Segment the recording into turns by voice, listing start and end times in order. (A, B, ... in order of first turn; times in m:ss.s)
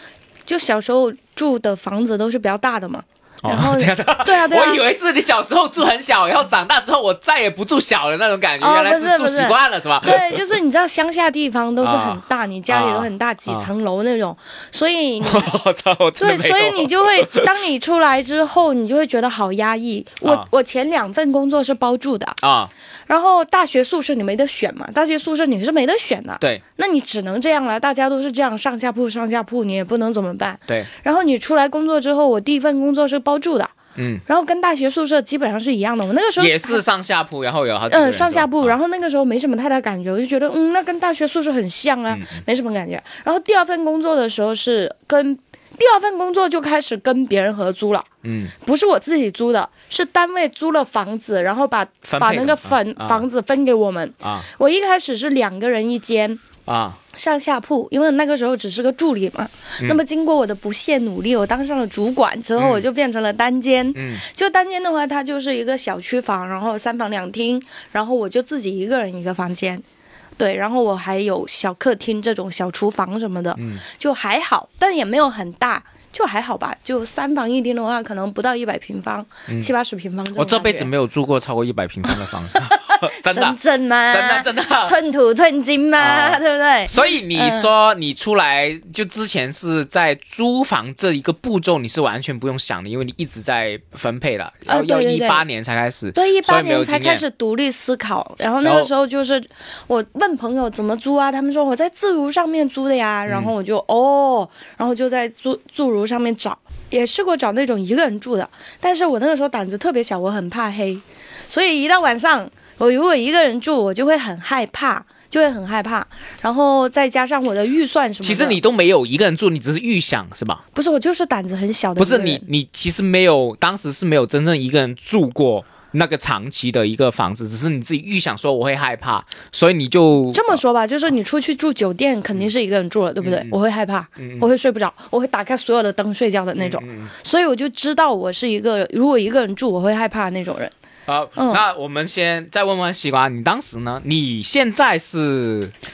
0:00.5-0:04.8 A
0:03.4-0:10.5 B
0:08.6-0:15.6 A
0:11.8-0:13.7 B
0:15.2-0:17.5 B
0:16.2-0:22.4 A
0:22.4-0:22.7 B
0:23.1-0:33.7 A
0:34.0-0:34.2 B
0:34.3-0:36.8 A
0:36.4-0:38.8 B
0:37.9-0:48.1 A
0:42.1-0:42.4 B
0:48.2-0:48.5 B
0:48.6-0:56.4 A
0:52.1-0:53.2 B
0:54.2-0:54.5 B
0:56.7-0:57.0 B
0:57.2-1:09.8 A
1:02.6-1:02.8 B
1:04.0-1:04.2 B
1:10.4-1:20.9 A
1:13.6-1:13.8 B
1:20.4-1:23.6 B
1:22.1-1:27.7 A
1:24.1-1:25.0 B
1:26.0-1:37.2 B
1:34.7-1:35.4 A
1:36.2-1:58.6 A
1:38.6-1:38.9 B
1:43.3-1:43.5 B
1:58.2-2:00.6 B
2:00.8-2:02.4 A
2:02.0-2:10.6 B
2:10.3-2:20.7 A
2:13.2-2:13.6 B
2:14.2-2:14.5 B
2:16.6-2:17.1 B
2:21.1-2:25.7 B
2:21.4-2:21.6 A